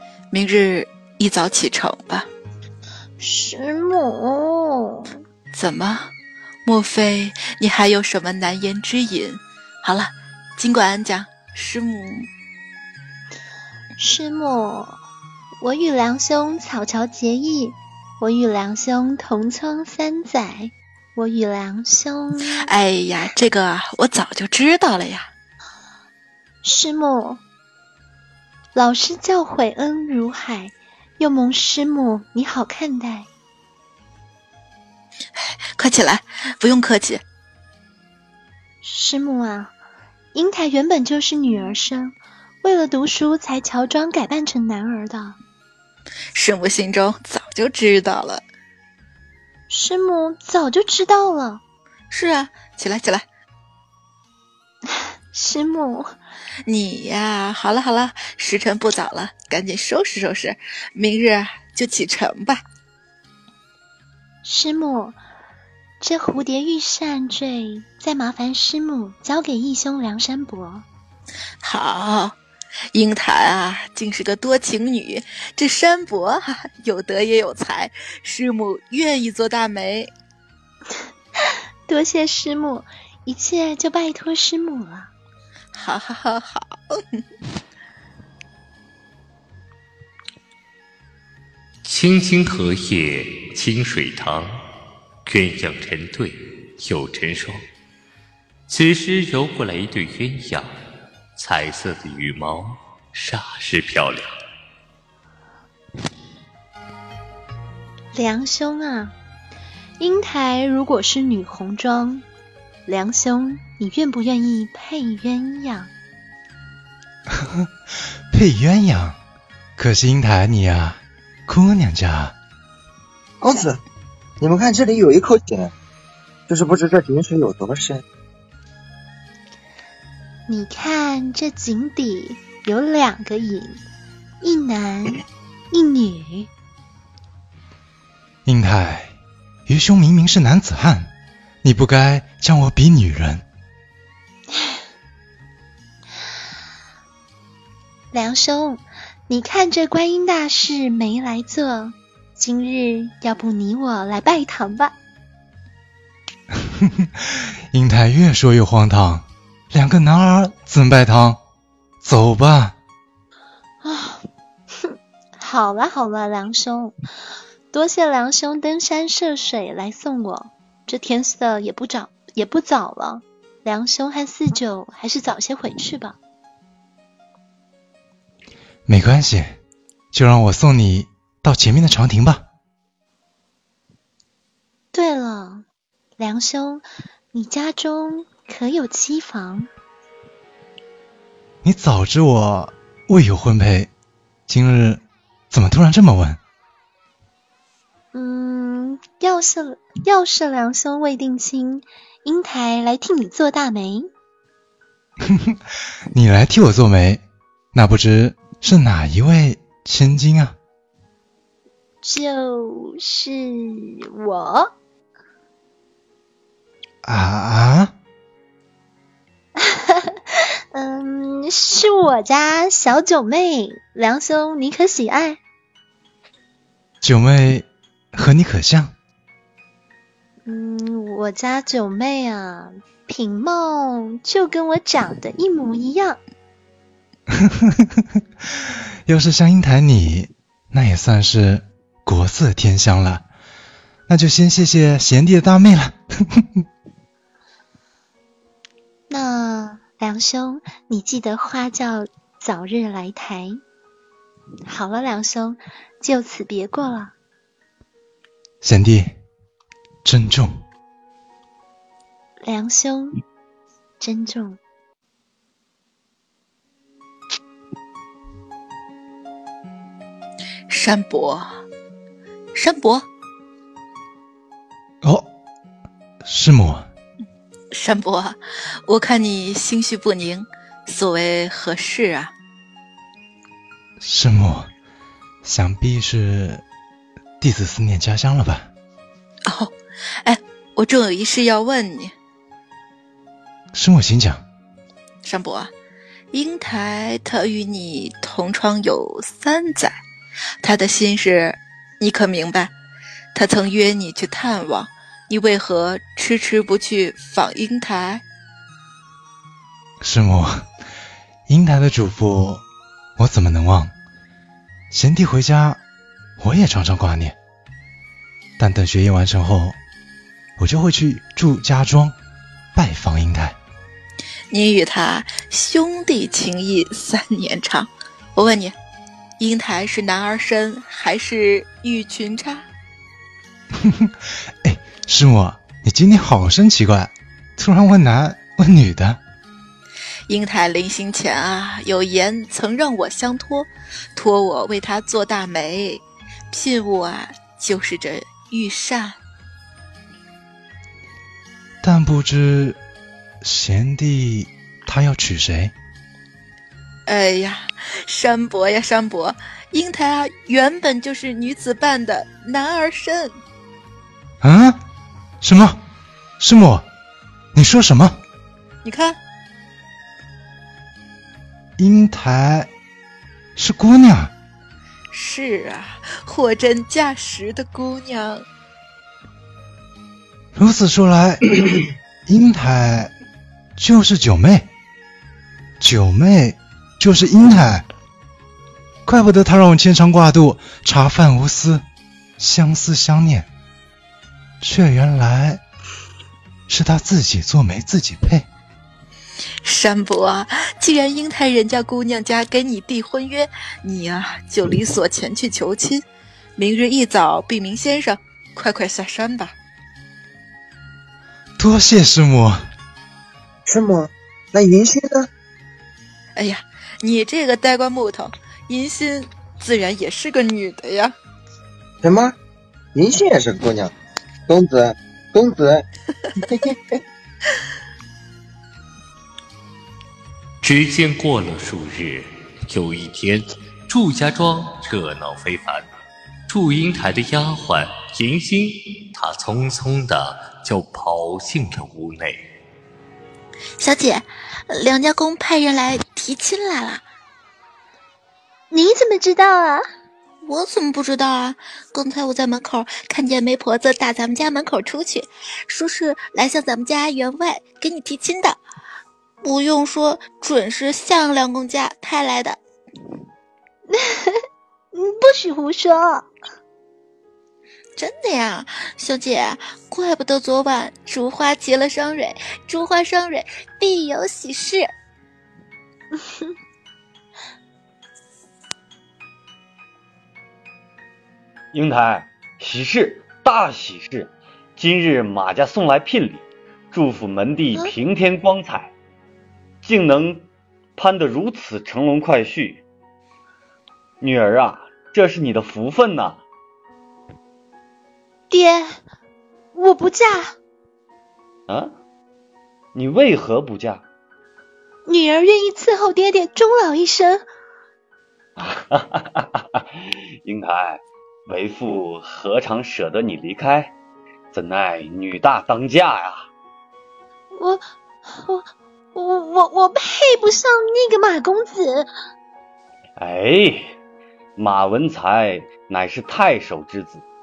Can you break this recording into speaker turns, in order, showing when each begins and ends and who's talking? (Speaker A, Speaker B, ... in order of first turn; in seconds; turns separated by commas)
Speaker A: 0.3-2.3, Speaker B: 3.2-5.1, Speaker A: 5.5-6.1, Speaker A: 6.7-12.3, Speaker B: 14.0-15.0, Speaker B: 15.6-22.6, Speaker A: 22.5-25.3, Speaker B: 26.6-27.4, Speaker B: 28.8-33.3, Speaker A: 35.4-37.2, Speaker B: 38.8-39.7, Speaker B: 40.3-45.4, Speaker A: 46.3-48.5, Speaker B: 49.7-51.6, Speaker A: 52.1-53.3, Speaker B: 55.3-56.1, Speaker A: 56.6-62.6, Speaker B: 64.5-65.2, Speaker B: 66.0-70.8, Speaker A: 71.6-72.4, Speaker A: 72.9-80.1, Speaker B: 81.9-85.1, Speaker A: 85.7-87.2, Speaker C: 91.8-94.6, Speaker C: 95.3-97.6, Speaker C: 98.7-100.7, Speaker C: 101.4-104.3, Speaker B: 108.1-109.2, Speaker B: 110.0-112.2, Speaker B: 112.9-115.9, Speaker D: 117.3-117.7, Speaker D: 118.3-119.2, Speaker D: 119.8-122.4, Speaker E: 123.4-123.8, Speaker E: 124.4-125.7, Speaker E: 126.5-128.0, Speaker B: 130.5-133.8, Speaker B: 134.4-136.5, Speaker D: 138.5-139.2, Speaker D: 139.7-141.1, Speaker D: 141.6-143.4, Speaker B: 148.1-154.9, Speaker D: 156.5-161.4, Speaker D: 162.0-162.8, Speaker B: 163.8-164.2, Speaker B: 164.8-167.0, Speaker B: 167.7-176.2, Speaker D: 178.9-179.6, Speaker D: 180.1-182.5, Speaker B: 184.9-185.7, Speaker B: 186.2-189.7, Speaker D: 191.6-193.9, Speaker D: 194.5-196.4, Speaker B: 198.1-204.1, Speaker D: 205.2-205.6, Speaker D: 206.1-210.6, Speaker B: 212.0-214.7, Speaker D: 217.0-217.9, Speaker B: 219.6-220.2, Speaker B: 220.7-225.4, Speaker D: 227.0-228.9, Speaker B: 230.5-236.2, Speaker D: 237.3-243.3, Speaker D: 244.1-246.7, Speaker B: 249.1-253.6, Speaker B: 254.7-257.1, Speaker D: 258.6-259.2, Speaker D: 260.0-260.6, Speaker B: 262.4-263.2, Speaker B: 264.0-264.6, Speaker A: 270.7-271.5, Speaker A: 272.6-273.1, Speaker D: 275.0-275.3, Speaker D: 276.2-276.9, Speaker A: 277.7-282.3, Speaker D: 284.0-284.7, Speaker D: 285.4-286.6, Speaker D: 287.4-288.7, Speaker A: 289.5-292.1, Speaker D: 293.7-294.4, Speaker A: 295.2-295.7, Speaker A: 296.3-300.0, Speaker A: 300.6-302.7, Speaker A: 303.4-308.2, Speaker D: 310.0-310.7, Speaker D: 311.5-312.6, Speaker D: 313.2-313.9, Speaker D: 314.9-315.8, Speaker D: 316.4-317.4, Speaker D: 318.6-319.8, Speaker D: 320.6-322.1, Speaker D: 322.7-323.6, Speaker A: 324.5-328.7, Speaker A: 329.4-332.6, Speaker D: 333.8-339.2, Speaker A: 340.3-349.2, Speaker D: 351.8-352.8, Speaker D: 353.4-355.7, Speaker A: 357.1-363.4, Speaker D: 364.4-364.8, Speaker D: 365.4-365.8, Speaker D: 366.4-366.9, Speaker D: 367.5-368.2, Speaker A: 368.8-369.2, Speaker D: 371.8-372.7, Speaker D: 373.6-374.3, Speaker A: 375.1-378.4, Speaker D: 380.6-383.1, Speaker D: 383.8-384.7, Speaker D: 385.8-387.9, Speaker D: 389.1-391.8, Speaker D: 392.4-393.5, Speaker D: 394.6-395.6, Speaker D: 396.7-398.5, Speaker A: 399.6-406.0, Speaker A: 406.6-409.5, Speaker D: 411.6-412.7, Speaker E: 413.7-415.3, Speaker A: 416.4-421.1, Speaker E: 422.0-422.4, Speaker E: 422.9-423.9, Speaker E: 424.5-425.9, Speaker E: 426.4-427.0, Speaker C: 430.6-435.9, Speaker C: 436.5-442.5, Speaker A: 443.8-447.0, Speaker B: 448.7-449.8, Speaker A: 450.4-458.6, Speaker A: 459.4-462.6, Speaker B: 463.9-466.3, Speaker A: 468.0-474.9, Speaker B: 476.2-476.5, Speaker F: 481.7-488.9, Speaker F: 489.8-492.8, Speaker F: 494.2-496.4, Speaker B: 498.5-499.0, Speaker B: 499.8-500.6, Speaker F: 501.7-502.0, Speaker F: 502.9-504.1, Speaker B: 505.1-507.4, Speaker F: 508.6-514.0, Speaker F: 514.5-516.5, Speaker B: 517.5-522.1, Speaker F: 523.2-524.0, Speaker F: 524.6-527.2